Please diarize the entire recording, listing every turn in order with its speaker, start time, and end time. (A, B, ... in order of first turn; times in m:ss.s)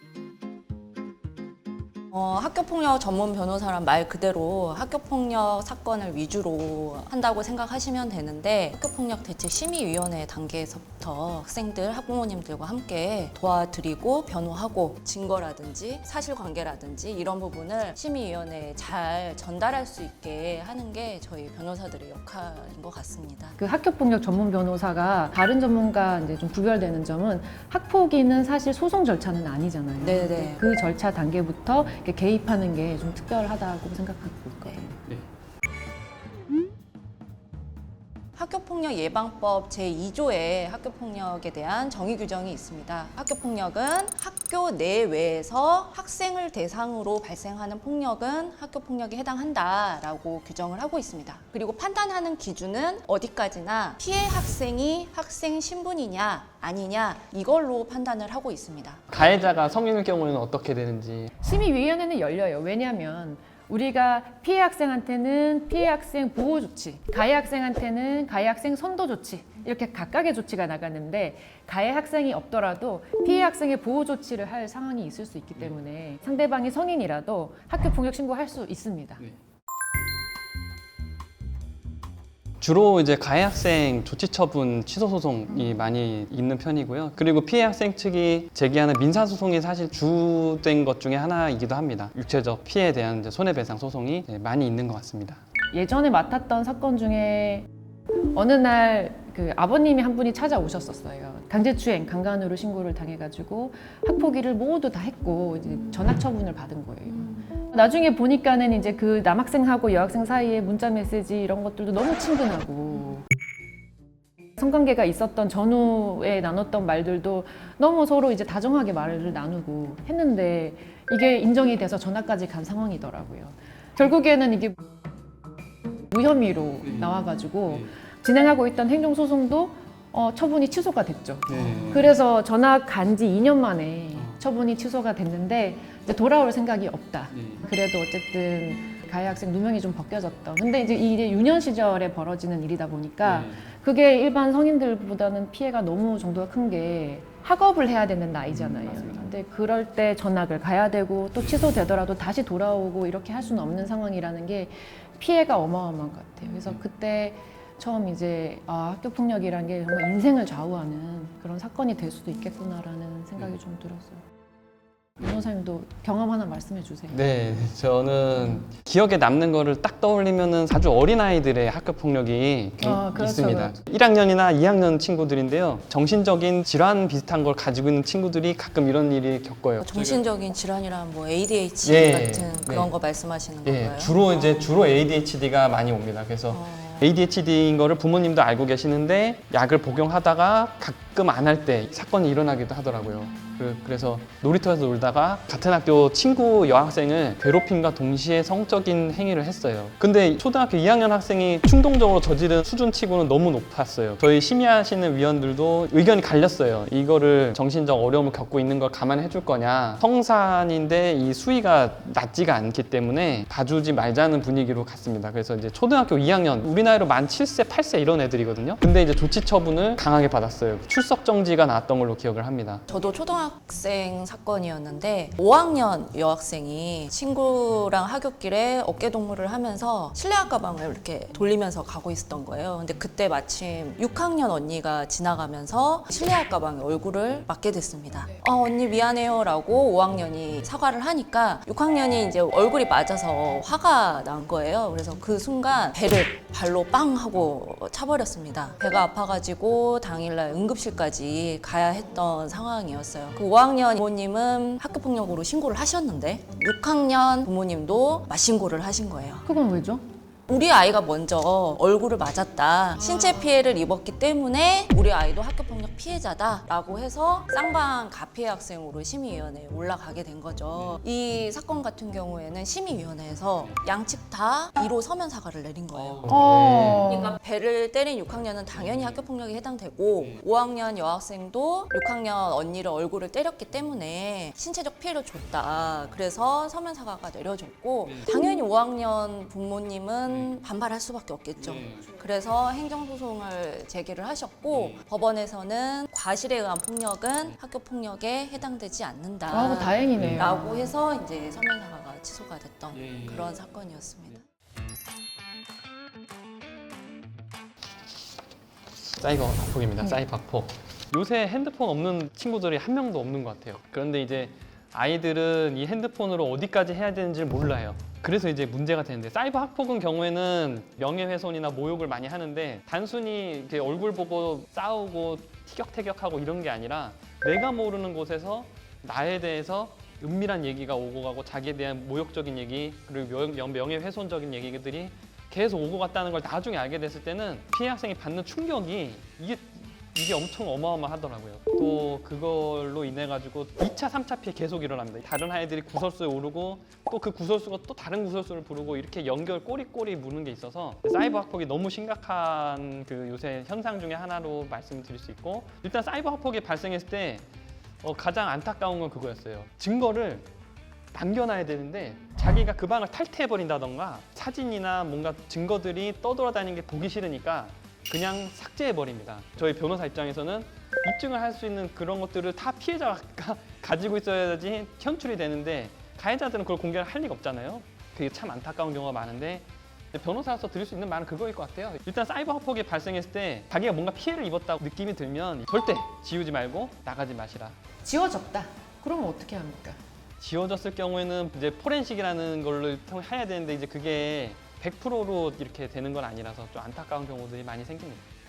0:02.1-0:23.6 A
0:23.6-0:35.0 B
0:30.0-0:30.6 A
0:38.4-0:59.1 A
0:59.1-1:01.3 C
1:01.4-1:19.2 B
1:22.6-1:35.4 C
1:35.7-1:37.7 B
1:38.3-1:53.2 B
1:54.6-2:04.8 B
2:06.1-2:44.2 B
2:45.2-2:47.2 B
2:47.1-3:00.2 C
2:52.8-2:53.7 B
2:59.8-3:04.2 A
3:01.8-3:02.9 C
3:03.6-3:42.8 C
3:06.5-3:07.1 A
3:42.9-4:19.5 A
4:19.5-4:20.0 B
4:20.5-4:36.5 A
4:36.0-4:37.0 C
4:36.3-4:37.4 B
4:37.0-5:04.4 A
4:59.5-5:00.9 B
5:00.2-5:00.5 C
5:09.2-5:57.4 C
5:58.0-6:00.5 C
6:01.1-6:27.8 C
6:28.0-6:30.0 B
6:30.4-6:38.2 C